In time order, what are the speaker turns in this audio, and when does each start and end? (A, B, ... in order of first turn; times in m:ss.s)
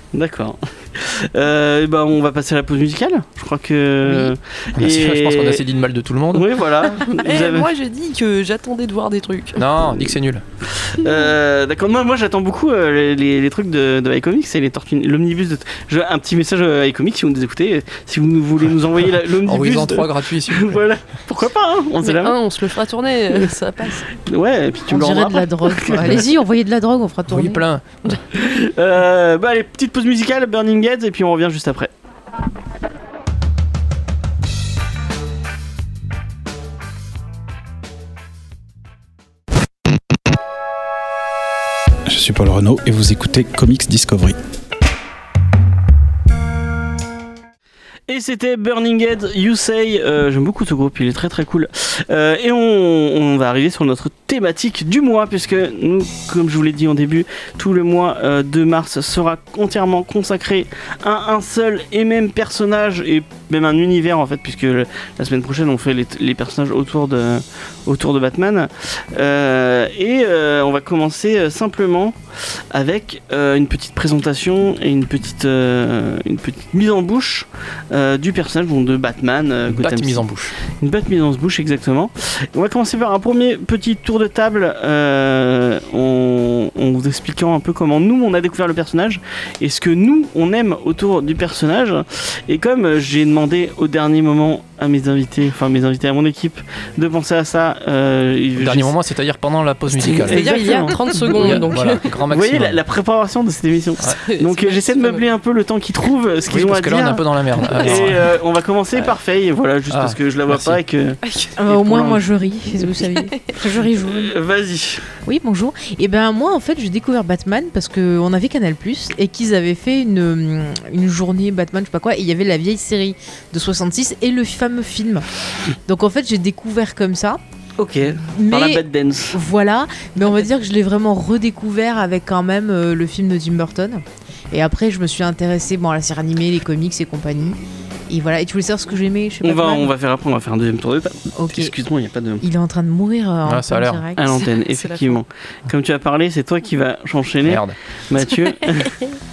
0:00.1-0:05.6 A
0:04.0-0:04.3 B
0:04.8-0:06.6 C
0:06.3-0:07.7 A
0:07.0-0:09.6 D
0:09.6-0:10.4 C
0:10.7-0:22.4 A
0:19.4-0:20.8 C
0:22.0-0:24.1 D
0:24.3-0:26.3 A
0:24.9-0:27.6 B
0:27.3-0:28.1 C
0:28.3-0:31.9 A
0:42.1-0:44.4 E
0:48.1-1:12.2 A
1:12.7-1:38.9 A
1:19.7-1:20.6 C
1:38.6-1:40.5 C
1:40.0-1:42.1 D
1:40.1-1:41.6 A
1:41.3-1:42.8 C
1:42.3-1:52.3 A
1:44.2-1:45.2 D
1:46.5-1:48.4 C
1:49.9-1:50.8 C
1:51.6-1:54.4 B
1:53.9-1:55.1 A
1:55.2-2:05.3 B
2:05.9-2:07.4 B
2:07.8-2:09.4 A
2:08.2-2:17.6 B
2:18.1-2:19.9 B
2:19.4-2:22.4 A
2:21.3-2:21.8 B
2:22.4-2:24.3 B
2:23.4-2:24.0 C
2:24.2-2:29.0 A
2:24.2-2:25.2 D
2:27.4-2:27.8 C